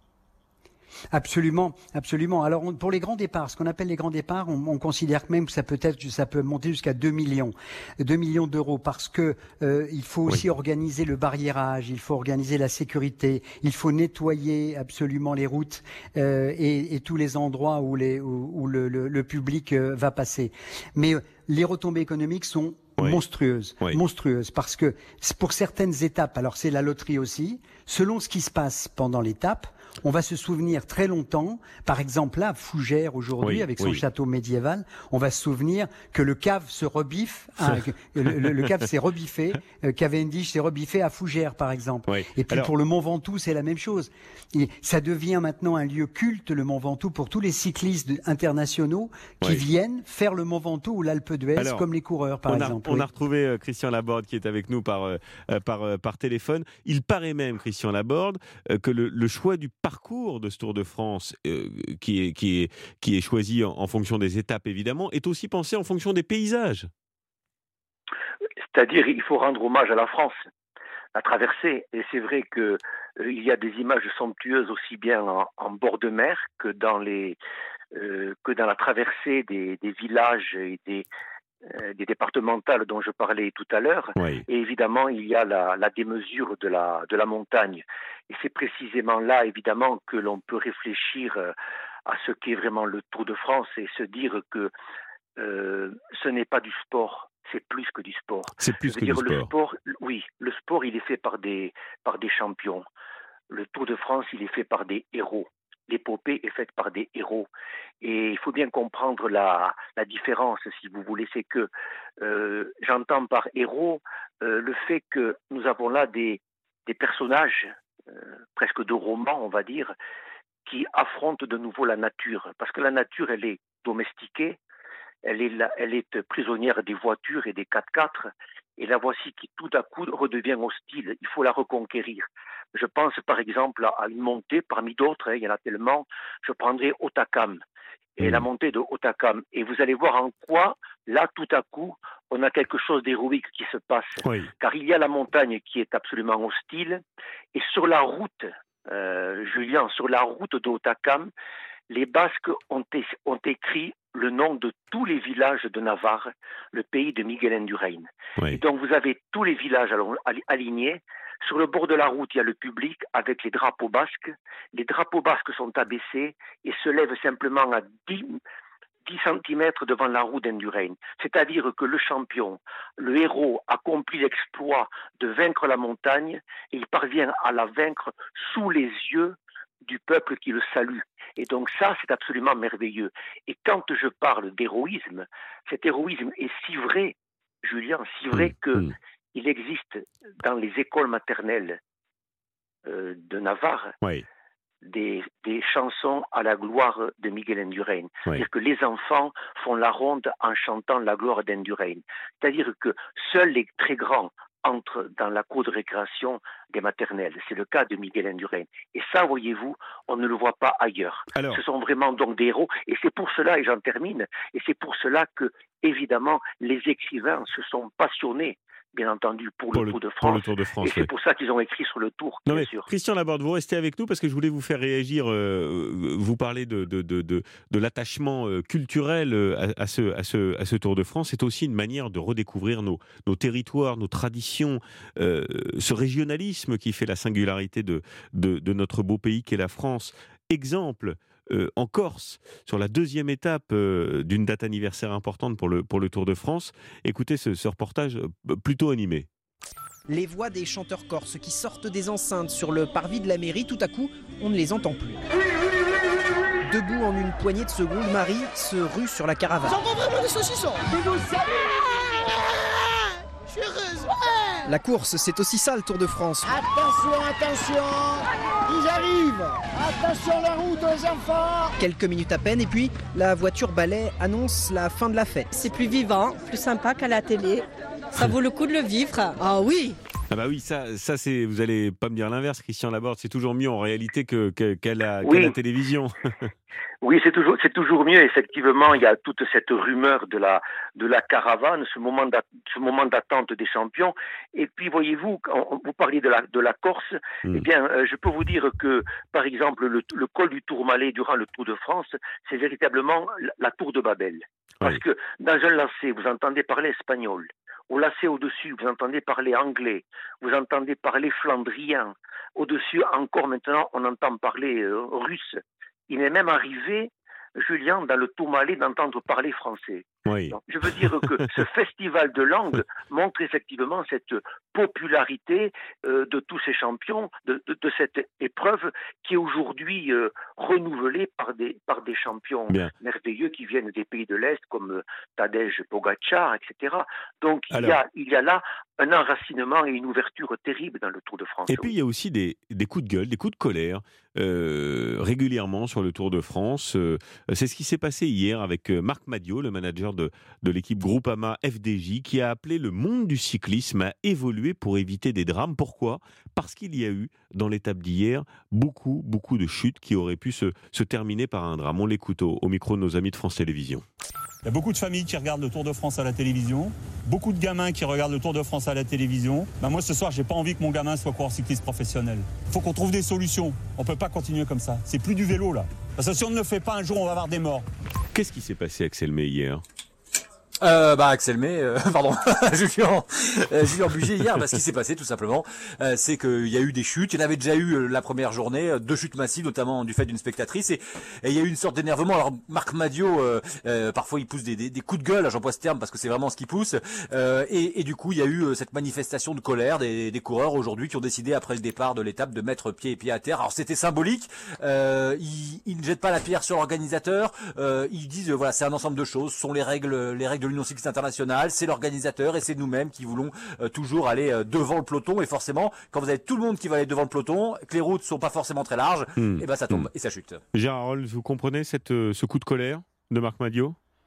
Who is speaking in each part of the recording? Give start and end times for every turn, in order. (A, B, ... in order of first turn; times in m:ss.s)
0:01.1-0:53.1 A
0:33.4-0:34.0 B
0:42.1-0:42.7 B
0:51.6-0:51.8 B
0:52.5-1:06.9 B
1:08.6-1:10.4 C
1:11.2-1:17.4 C
1:17.9-1:21.1 C
1:21.7-1:31.5 C
1:24.2-1:24.4 B
1:32.1-1:34.7 C
1:35.4-1:42.8 C
1:38.6-1:39.5 B
1:43.5-1:47.5 C
1:48.0-1:51.7 C
1:52.2-2:00.0 C
2:00.6-2:04.6 C
2:05.2-2:17.6 C
2:18.2-2:27.0 C
2:18.2-2:18.4 B
2:24.2-2:24.5 B
2:27.5-2:31.3 C
2:31.9-2:48.4 C
2:49.0-3:11.8 C
3:08.3-3:08.9 B
3:12.9-3:13.9 C
3:14.8-3:42.9 C
3:31.3-3:31.6 B
3:39.7-3:41.1 B
3:42.5-4:09.3 B
4:10.1-4:15.2 D
4:16.6-4:19.8 D
4:19.6-4:24.7 E
4:24.7-4:26.6 D
4:26.4-4:31.8 E
4:31.8-4:40.0 D
4:40.3-4:46.5 B
4:45.2-4:45.6 C
4:47.0-5:41.9 C
5:20.3-5:21.1 B
5:37.7-5:38.0 B
5:41.7-6:04.0 B
6:04.6-6:17.8 F
6:18.3-6:19.8 B
6:20.8-7:00.6 G
6:59.4-7:00.1 B
7:00.7-7:04.0 B